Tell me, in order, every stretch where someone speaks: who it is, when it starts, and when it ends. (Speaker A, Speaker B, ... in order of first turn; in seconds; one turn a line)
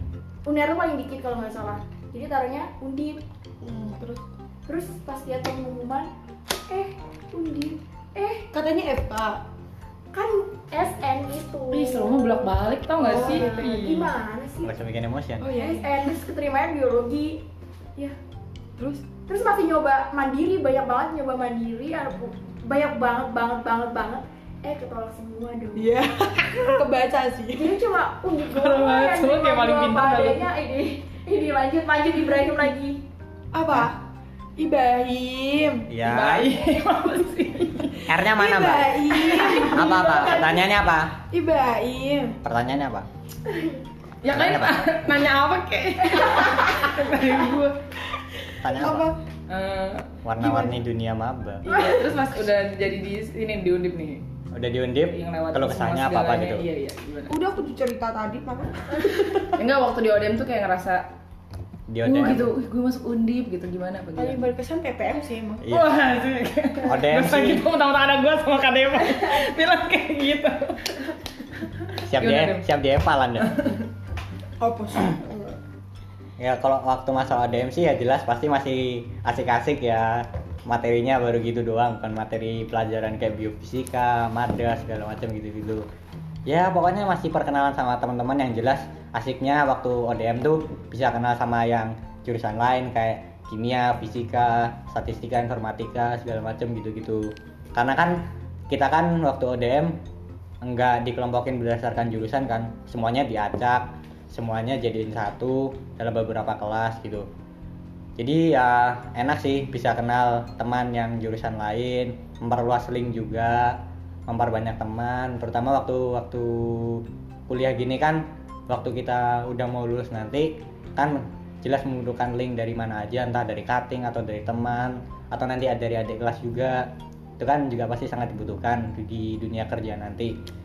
Speaker A: 0.5-3.2
Speaker B: 3.6-4.2
Speaker A: 4.7-6.1
Speaker A: 6.7-8.5
Speaker B: 8.5-9.4
Speaker A: 10.1-14.7
Speaker C: 11.7-14.1
Speaker B: 13.0-13.7
Speaker D: 14.6-15.5
Speaker B: 15.4-16.1
Speaker A: 15.5-17.4
Speaker B: 18.8-19.1
Speaker A: 19.3-25.9
Speaker B: 25.8-27.8
Speaker A: 27.5-33.0
Speaker C: 28.5-30.4
Speaker B: 33.5-34.0
Speaker B: 34.6-35.9
Speaker D: 35.9-36.5
Speaker C: 36.0-38.0
Speaker D: 38.1-39.0
Speaker B: 38.2-40.5
Speaker A: 39.3-40.5
Speaker D: 39.7-41.1
Speaker B: 41.3-42.4
Speaker D: 42.4-43.1
Speaker A: 43.5-43.8
Speaker C: 44.2-47.8
Speaker D: 44.3-44.9
Speaker D: 48.6-49.1
Speaker B: 48.6-49.2
Speaker C: 49.5-50.1
Speaker D: 50.2-51.6
Speaker B: 50.4-50.8
Speaker C: 51.6-54.2
Speaker A: 51.7-52.1
Speaker D: 54.5-56.6
Speaker C: 55.1-57.4
Speaker B: 57.3-59.6
Speaker C: 59.6-61.1
Speaker D: 61.9-62.5
Speaker C: 62.0-64.4
Speaker B: 64.2-65.8
Speaker D: 65.6-66.0
Speaker C: 65.7-71.0
Speaker D: 66.8-67.6
Speaker D: 72.0-73.6
Speaker C: 72.2-72.7
Speaker B: 74.6-75.6
Speaker D: 76.4-85.9
Speaker D: 86.5-100.0
Speaker D: 100.6-107.3
Speaker D: 108.2-130.3